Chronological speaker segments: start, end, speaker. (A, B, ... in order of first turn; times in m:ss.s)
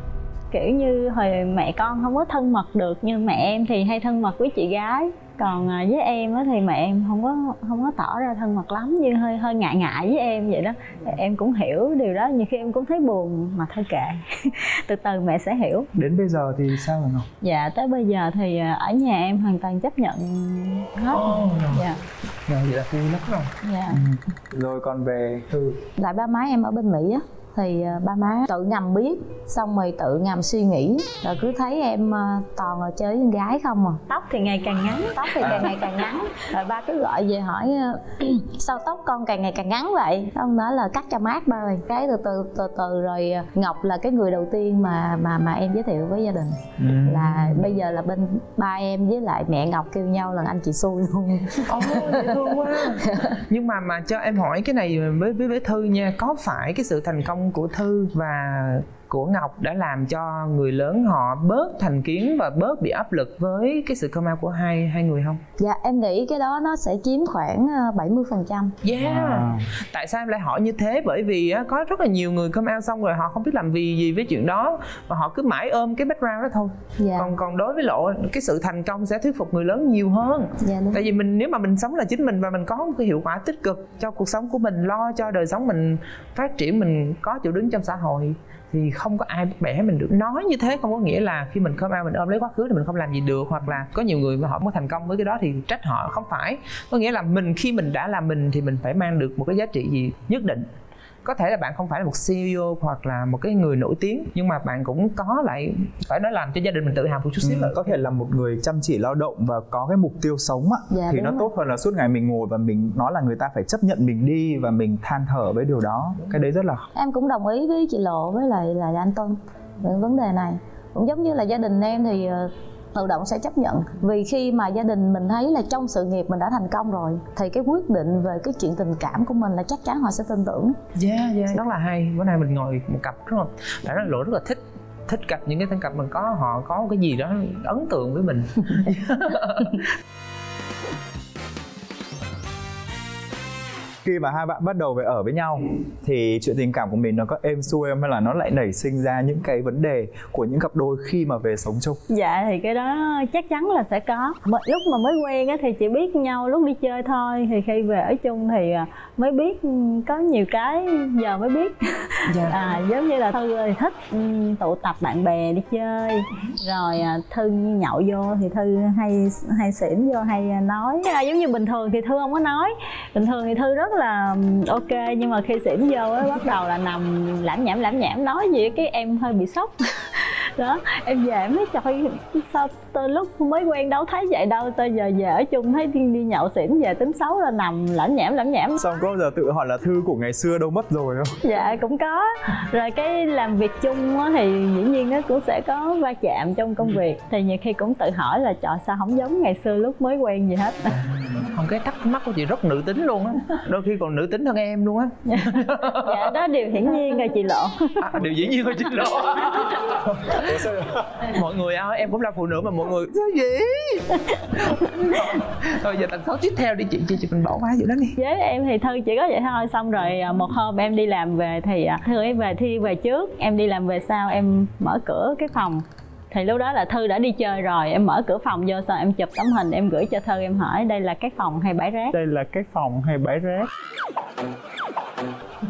0:00.5-0:15.9 A
0:16.0-0:17.3 B
0:17.4-0:22.0 A
0:21.1-0:21.9 C
0:22.5-0:23.5 C
0:23.6-0:24.0 A
0:23.9-0:25.7 B
0:26.0-0:34.0 D
0:34.1-0:35.6 A
0:35.1-0:52.6 D
0:35.4-0:35.7 B
0:46.8-0:47.7 B
0:51.7-1:05.4 C
1:05.6-1:08.7 D
1:08.8-1:40.7 C
1:09.0-1:09.6 B
1:17.0-1:17.3 D
1:20.6-1:21.0 D
1:41.2-1:47.9 C
1:47.4-1:56.8 B
1:50.9-1:51.5 D
1:56.9-2:10.8 D
2:11.0-2:19.9 C
2:24.0-2:32.0 B
2:32.1-3:08.8 A
2:42.3-2:42.6 C
3:08.8-3:11.4 B
3:11.4-3:21.0 A
3:21.3-3:26.4 C
3:25.3-3:28.2 A
3:28.0-3:30.6 C
3:30.0-3:31.3 B
3:31.2-3:38.2 C
3:38.2-3:52.2 A
3:52.1-3:53.7 B